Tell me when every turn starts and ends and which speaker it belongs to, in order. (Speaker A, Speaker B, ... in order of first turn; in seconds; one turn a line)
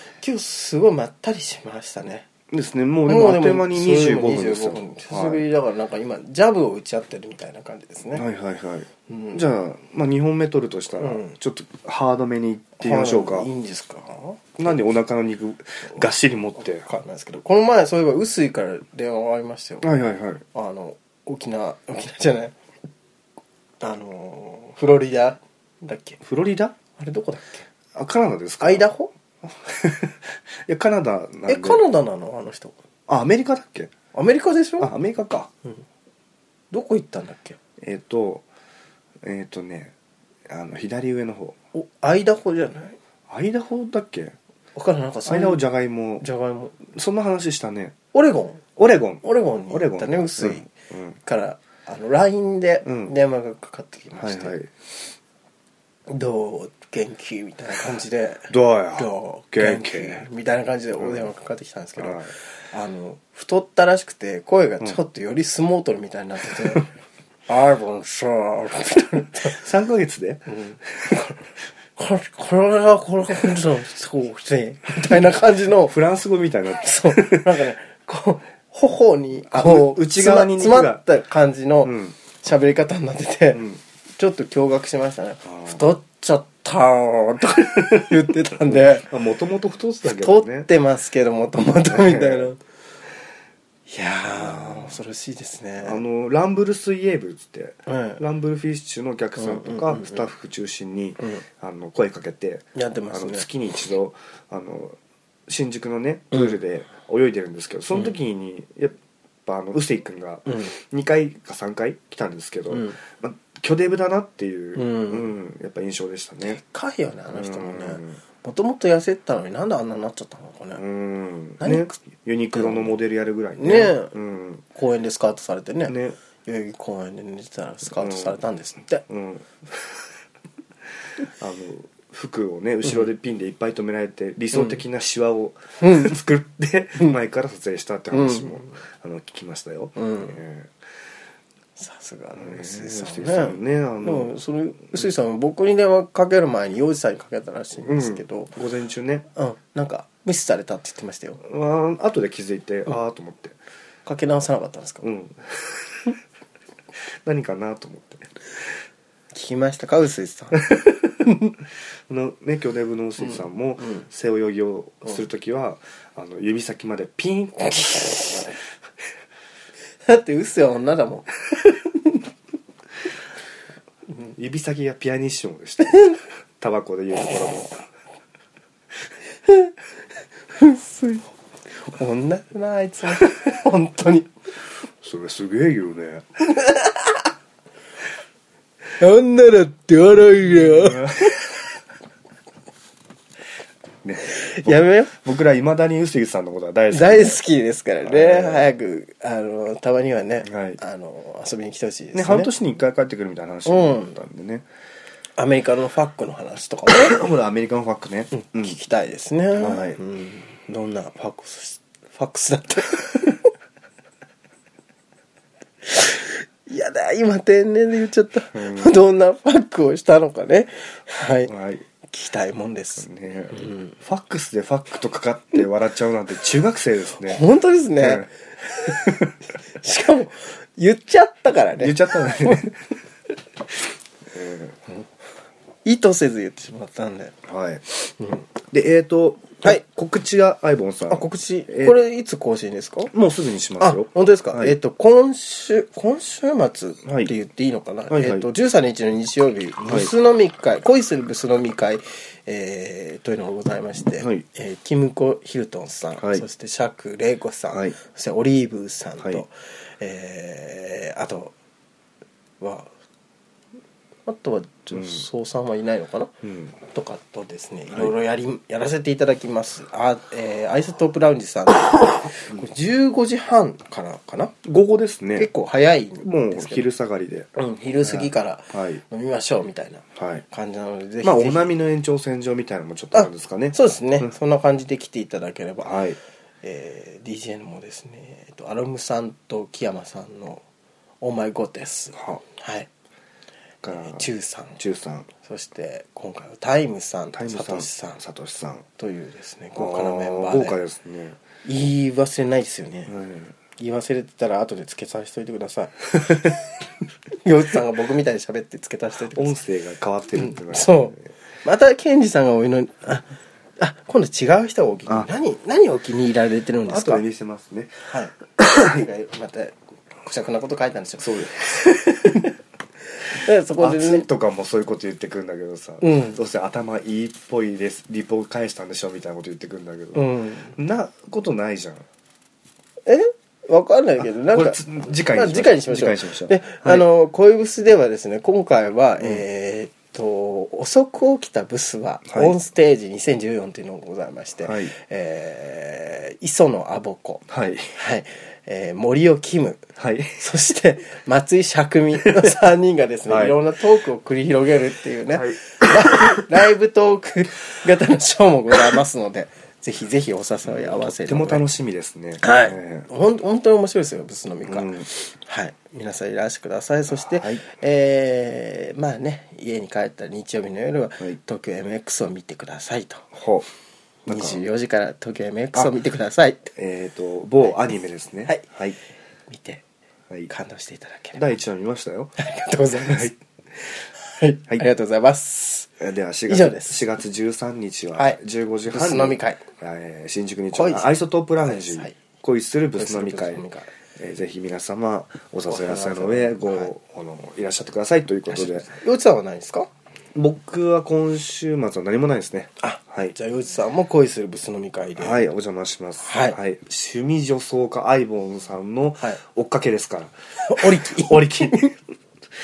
Speaker A: 0.2-2.3
Speaker B: 2.5-5.4
Speaker A: 3.1-8.2
Speaker B: 8.1-13.5
Speaker A: 9.1-9.4
Speaker A: 11.0-11.3
Speaker A: 12.8-14.6
Speaker B: 14.6-16.9
Speaker A: 16.8-19.9
Speaker B: 19.8-20.4
Speaker A: 20.5-22.6
Speaker A: 23.8-26.2
Speaker B: 26.2-26.8
Speaker A: 27.0-27.7
Speaker B: 27.9-28.9
Speaker A: 28.6-29.1
Speaker B: 29.4-31.8
Speaker A: 31.5-32.8
Speaker B: 33.1-33.9
Speaker A: 34.1-34.9
Speaker B: 34.8-35.5
Speaker A: 36.7-37.6
Speaker B: 37.8-38.5
Speaker B: 39.2-39.9
Speaker B: 40.5-41.6
Speaker A: 41.7-43.0
Speaker B: 43.3-44.4
Speaker A: 44.8-45.6
Speaker B: 45.2-46.2
Speaker A: 46.2-46.9
Speaker B: 46.9-48.0
Speaker A: 48.1-48.7
Speaker B: 48.8-51.2
Speaker A: 49.2-50.7
Speaker A: 51.2-54.6
Speaker B: 52.9-53.1
Speaker B: 54.2-54.7
Speaker A: 56.1-66.9
Speaker B: 58.5-60.2
Speaker B: 61.0-61.3
Speaker B: 62.0-62.3
Speaker A: 67.5-69.6
Speaker B: 69.4-70.5
Speaker A: 70.5-71.4
Speaker A: 72.0-76.0
Speaker B: 75.8-77.6
Speaker A: 76.8-83.7
Speaker B: 79.5-81.0
Speaker B: 81.8-82.2
Speaker B: 83.5-83.8
Speaker A: 84.2-89.1
Speaker B: 85.5-85.8
Speaker B: 88.7-90.7
Speaker A: 90.0-92.6
Speaker B: 91.9-92.5
Speaker A: 93.9-96.0
Speaker B: 94.3-95.0
Speaker B: 95.8-105.0
Speaker A: 97.9-98.2
Speaker A: 99.4-100.3
Speaker A: 102.8-103.5
Speaker B: 105.5-116.6
Speaker A: 110.5-110.7
Speaker A: 112.7-113.0
Speaker A: 114.8-115.3
Speaker A: 116.5-120.8
Speaker B: 117.3-118.2
Speaker B: 120.8-124.6
Speaker A: 121.6-122.0
Speaker A: 122.5-123.0
Speaker A: 123.6-124.2
Speaker A: 124.7-129.0
Speaker B: 125.9-126.2
Speaker B: 128.0-128.4
Speaker B: 129.0-130.0
Speaker B: 131.4-140.7
Speaker A: 135.8-136.2
Speaker A: 138.1-138.8
Speaker A: 140.0-140.4
Speaker A: 141.8-148.5
Speaker B: 142.3-144.3
Speaker B: 147.8-149.3
Speaker A: 149.3-151.4
Speaker B: 151.4-153.6
Speaker A: 154.1-155.1
Speaker B: 155.0-156.2
Speaker B: 157.2-158.7
Speaker A: 159.3-160.7
Speaker A: 161.3-161.5
Speaker B: 162.1-168.6
Speaker A: 163.2-164.1
Speaker A: 170.1-172.2
Speaker B: 174.4-177.8
Speaker A: 180.5-181.3
Speaker A: 181.8-184.3
Speaker B: 185.0-186.2
Speaker A: 186.6-187.1
Speaker A: 189.0-191.3
Speaker B: 190.5-191.4
Speaker B: 194.0-197.4
Speaker A: 194.3-195.2
Speaker A: 196.9-202.5
Speaker B: 198.0-198.7
Speaker B: 200.4-200.8
Speaker B: 202.1-204.7
Speaker A: 203.7-204.2
Speaker A: 205.4-207.2
Speaker B: 206.9-208.8
Speaker A: 208.4-213.5
Speaker B: 209.6-210.0
Speaker A: 215.9-221.5
Speaker B: 218.5-218.9
Speaker B: 221.5-221.8
Speaker A: 222.1-223.9
Speaker B: 223.0-227.4
Speaker A: 227.2-232.7
Speaker B: 228.0-229.3
Speaker B: 231.8-232.8
Speaker B: 234.3-234.8
Speaker A: 235.8-237.4
Speaker B: 237.5-237.8
Speaker A: 238.2-238.4
Speaker B: 238.7-242.0
Speaker A: 241.1-243.1
Speaker B: 243.1-244.8
Speaker A: 243.8-261.5
Speaker B: 247.1-247.3
Speaker B: 248.1-248.5
Speaker B: 249.8-250.1
Speaker B: 254.2-254.4
Speaker B: 256.2-256.4
Speaker A: 262.6-262.9
Speaker A: 264.3-274.6
Speaker B: 264.9-265.3
Speaker B: 266.4-266.7
Speaker B: 274.6-275.5
Speaker A: 275.4-276.9
Speaker B: 276.2-279.0
Speaker A: 277.6-281.7
Speaker B: 280.2-280.4
Speaker B: 281.2-284.3
Speaker A: 283.1-285.9
Speaker B: 285.8-286.2
Speaker A: 286.6-290.6
Speaker A: 291.2-292.9
Speaker B: 292.1-292.4
Speaker B: 293.8-295.3
Speaker A: 293.9-294.8
Speaker A: 295.4-298.2
Speaker B: 297.3-298.9
Speaker A: 299.0-300.8
Speaker B: 299.8-301.4
Speaker A: 301.6-303.1
Speaker B: 303.1-303.5
Speaker A: 303.8-306.5
Speaker A: 307.3-309.6
Speaker B: 309.3-311.2
Speaker A: 310.4-317.2
Speaker B: 316.9-318.1
Speaker A: 318.1-322.5
Speaker B: 318.6-319.0
Speaker B: 321.2-322.5
Speaker A: 323.2-324.2
Speaker B: 323.8-332.1
Speaker A: 326.0-326.4
Speaker A: 330.1-330.8
Speaker A: 333.1-347.4
Speaker B: 334.2-337.1
Speaker B: 342.3-342.5
Speaker B: 344.6-344.9
Speaker B: 347.5-348.0
Speaker A: 347.9-349.9
Speaker B: 350.0-350.4
Speaker A: 350.4-361.7
Speaker B: 353.3-353.6
Speaker B: 355.3-356.2
Speaker B: 360.7-363.1
Speaker A: 362.4-373.3
Speaker B: 364.7-365.1
Speaker B: 367.2-367.6
Speaker B: 373.3-373.7
Speaker B: 374.3-374.6
Speaker A: 374.3-376.7
Speaker B: 376.8-379.0
Speaker A: 379.5-379.8
Speaker A: 380.5-381.4
Speaker B: 381.4-382.4
Speaker A: 382.4-383.4
Speaker A: 384.1-385.9
Speaker B: 386.0-393.6
Speaker A: 386.5-387.0
Speaker A: 388.9-389.6
Speaker A: 390.8-391.1
Speaker A: 391.6-392.2
Speaker A: 393.0-393.9
Speaker B: 394.2-398.9
Speaker A: 395.7-396.9
Speaker A: 398.5-399.9
Speaker B: 400.4-403.4
Speaker A: 402.8-405.5
Speaker B: 405.2-411.9
Speaker A: 406.2-406.6
Speaker A: 410.6-411.9